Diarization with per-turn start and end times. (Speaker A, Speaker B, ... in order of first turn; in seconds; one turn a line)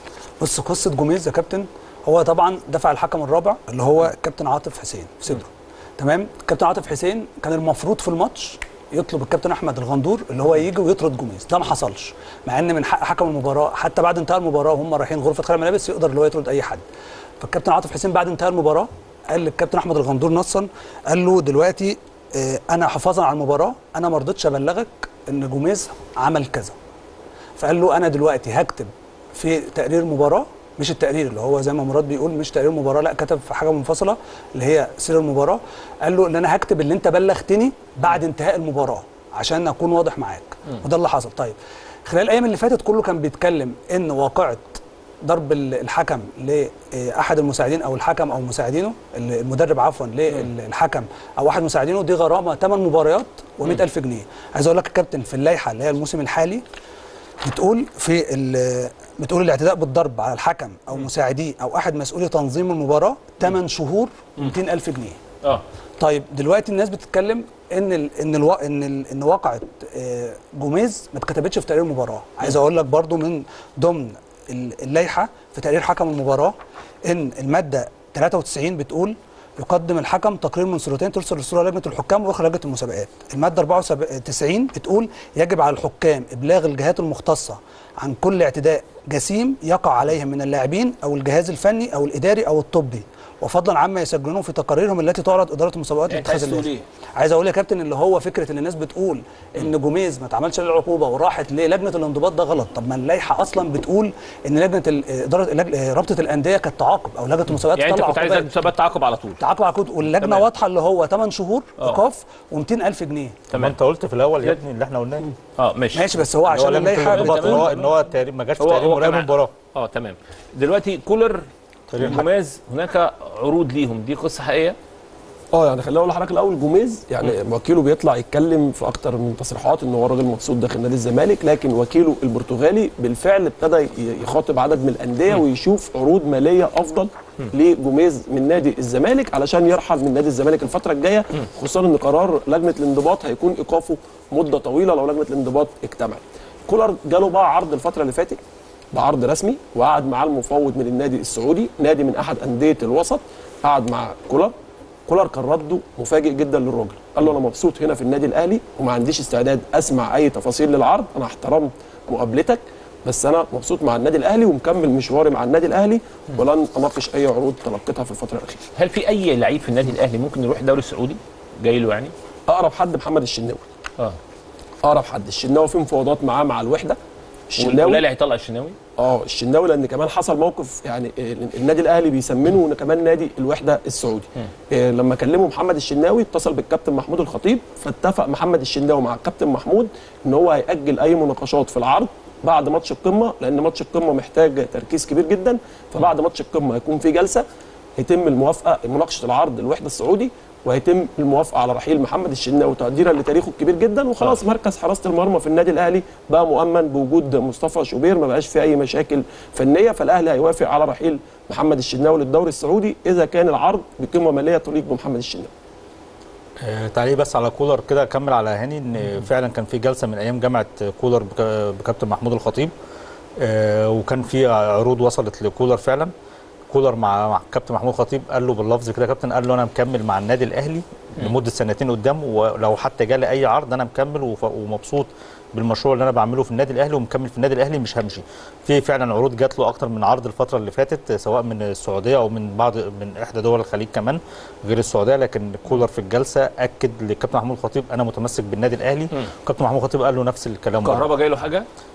Speaker A: 0.4-16.8
Speaker A: 17.4-26.8
Speaker A: 27.6-56.6
Speaker A: 57.4-65.2
Speaker A: 66.0-108.5
Speaker B: 96.1-96.8
Speaker B: 107.8-109.4
Speaker A: 109.4-113.4
Speaker B: 113.5-113.8
Speaker C: 113.5-115.3
Speaker B: 115.6-116.2
Speaker A: 115.9-117.7
Speaker C: 116.5-119.5
Speaker B: 117.0-118.0
Speaker B: 118.6-121.5
Speaker C: 121.9-122.3
Speaker B: 122.0-124.8
Speaker D: 125.5-148.4
Speaker D: 148.9-154.5
Speaker D: 155.1-168.6
Speaker B: 168.8-172.1
Speaker D: 172.5-173.7
Speaker D: 174.8-177.0
Speaker D: 177.5-178.0
Speaker B: 177.6-178.8
Speaker D: 179.0-197.4
Speaker D: 198.0-215.5
Speaker C: 216.6-222.7
Speaker C: 223.4-226.1
Speaker C: 226.7-251.1
Speaker B: 250.8-251.7